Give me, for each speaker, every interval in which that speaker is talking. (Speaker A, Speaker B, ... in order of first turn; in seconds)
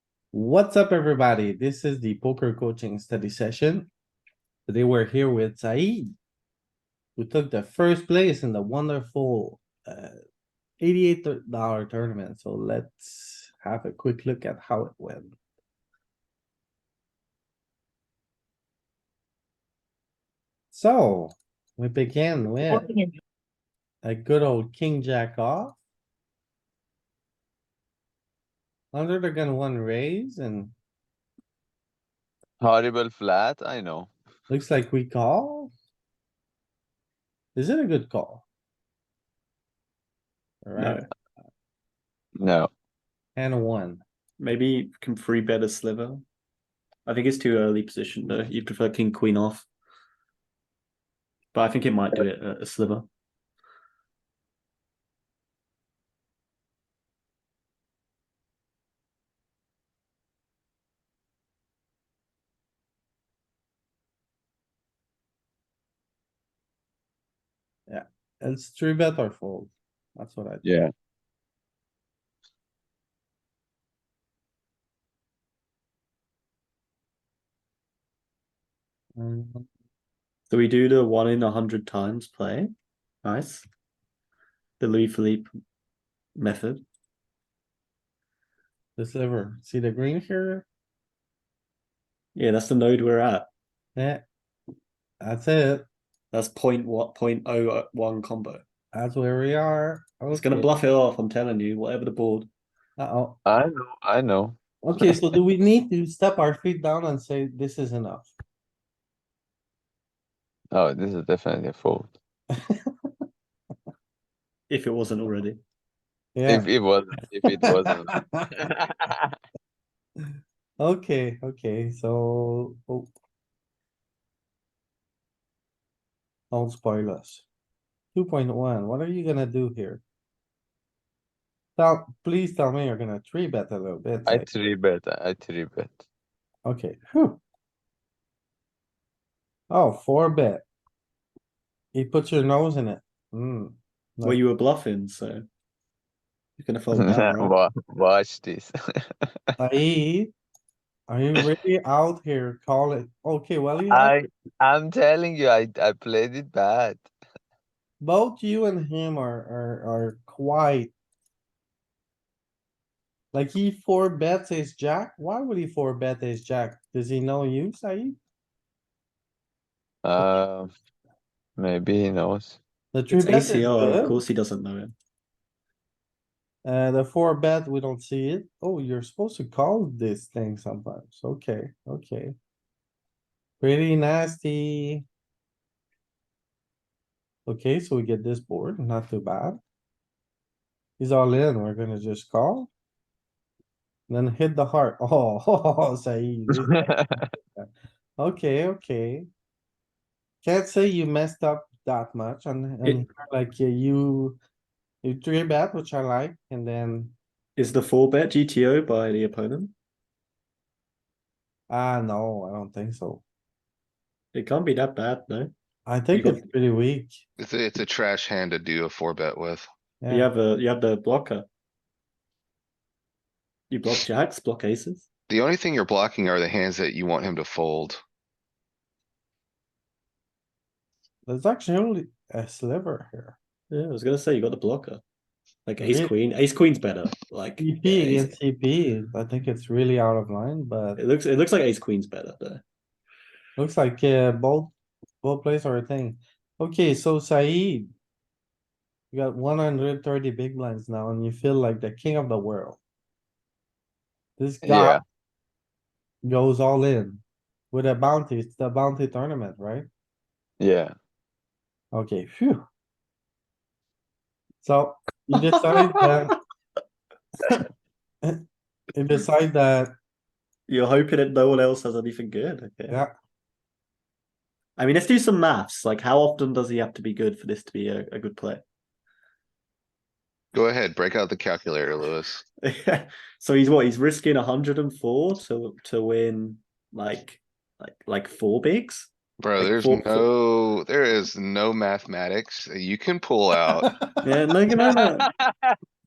Speaker A: 0.3-3.9, 4.7-6.1, 7.2-10.1, 10.8-15.3, 20.7-22.9, 24.0-25.8, 28.9-30.8, 34.5-35.7, 37.5-38.4, 40.6-41.0, 43.4-44.0, 67.9-70.7, 79.2-79.7, 89.0-90.7, 94.0-94.2, 95.2-95.9, 98.9-100.7, 103.0-103.4, 104.8-108.3, 112.5-112.9, 116.3-116.7, 117.5-118.5, 120.8-123.1, 126.5-127.5, 128.2-130.0, 131.8-134.5, 136.7-137.4, 139.7-140.7, 141.9-144.4, 149.6-150.3, 151.1-154.2, 158.0-160.9, 163.3-168.2, 172.9-174.2, 176.6-182.3, 183.6-185.1, 187.5-189.6, 191.0-192.7, 194.1-199.3, 200.4-204.4, 205.0-207.2, 211.7-213.2, 215.8-217.2, 220.0-220.3, 231.2-233.4, 235.8-236.1, 237.6-241.0, 243.6-247.9, 249.1-252.8, 254.4-255.0, 256.2-259.9, 261.9-262.6, 264.6-266.4, 268.9-269.9
Speaker B: 32.6-34.1, 42.4-42.7, 70.6-70.9, 103.5-105.3, 110.7-112.1, 116.5-119.3, 134.3-136.1, 146.9-148.7, 153.9-157.1, 170.0-170.7, 171.6-172.6, 196.5-197.2, 254.6-255.0, 260.6-260.9, 294.8-295.1
Speaker C: 40.8-41.0, 44.4-46.2, 47.1-49.7, 51.5-53.1, 80.5-82.7, 83.2-83.7, 84.8-85.5, 86.4-86.8, 92.3-93.5, 96.3-98.6, 100.3-102.5, 114.7-115.6, 144.2-145.4, 146.6-147.6, 173.1-174.9, 207.6-209.7, 214.3-215.5, 216.1-216.4, 220.1-221.5, 223.7-225.1, 233.7-235.0, 235.7-238.3, 241.0-242.6, 265.7-266.1, 270.7-273.0, 274.8-278.6, 282.6-290.3, 294.2-295.2
Speaker D: 217.4-219.7, 225.3-228.0, 280.5-282.4, 289.4-293.9